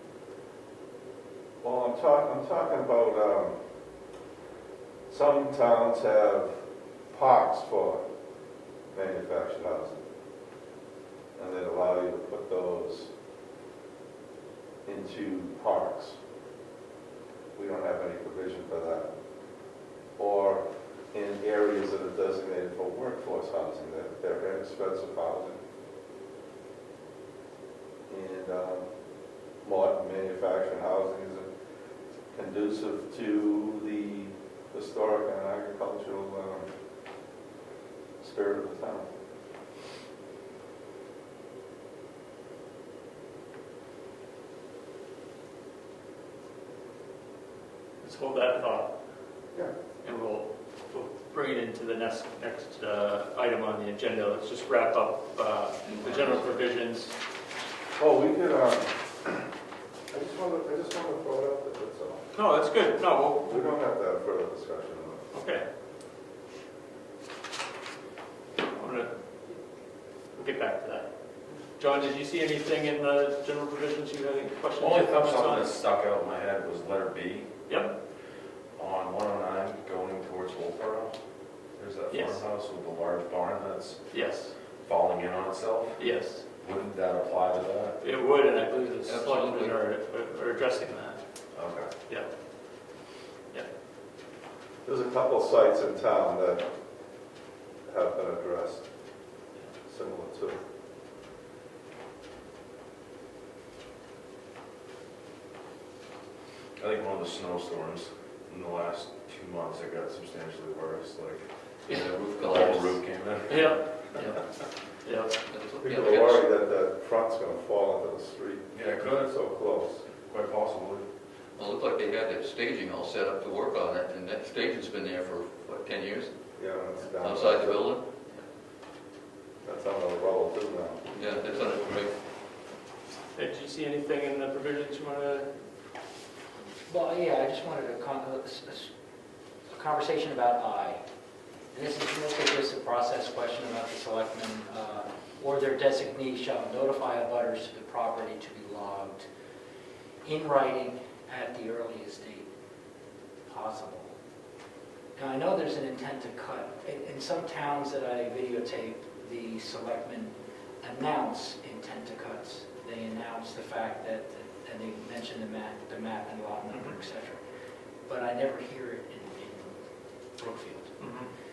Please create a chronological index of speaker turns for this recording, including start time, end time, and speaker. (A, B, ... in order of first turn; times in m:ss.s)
0:01.6-0:03.6 A
0:05.1-0:06.6 A
0:07.1-0:08.0 A
0:08.9-0:10.0 A
0:11.4-0:13.1 A
0:14.9-0:16.2 A
0:17.6-0:19.1 A
0:20.2-0:25.6 A
0:28.1-0:28.9 A
0:29.6-0:31.5 A
0:32.3-0:36.7 A
0:38.2-0:39.1 A
0:48.0-0:48.9 B
0:50.0-0:57.1 B
0:58.0-0:59.5 A
1:00.1-1:02.2 A
1:02.3-1:03.8 B
1:03.4-1:05.2 A
1:05.3-1:05.6 B
1:08.7-1:09.1 B
1:10.4-1:11.1 B
1:11.8-1:15.7 B
1:14.8-1:17.5 C
1:17.7-1:17.9 B
1:18.8-1:21.2 C
1:21.8-1:24.0 C
1:22.1-1:22.4 B
1:24.1-1:24.5 B
1:24.8-1:26.0 C
1:26.0-1:26.4 B
1:26.6-1:28.0 C
1:28.0-1:31.2 B
1:29.1-1:29.8 D
1:31.5-1:31.9 C
1:34.8-1:36.7 A
1:37.9-1:38.8 A
1:39.9-1:40.6 A
1:46.8-1:54.4 C
1:51.9-1:53.0 D
1:53.5-1:54.4 B
1:55.0-1:55.4 B
1:55.5-1:56.4 D
1:55.8-2:00.0 A
1:58.7-1:59.3 C
2:00.1-2:01.1 C
2:01.6-2:06.3 D
2:06.6-2:07.8 A
2:07.2-2:08.0 D
2:09.6-2:11.0 A
2:11.1-2:12.1 D
2:13.4-2:15.5 B
2:16.9-2:18.9 E
2:19.7-2:21.0 E
2:21.7-2:29.3 E
2:30.2-2:32.5 E
2:33.5-2:34.1 E
2:35.2-2:47.4 E
2:48.1-2:49.8 E
2:50.4-2:51.0 E
2:51.0-2:51.3 B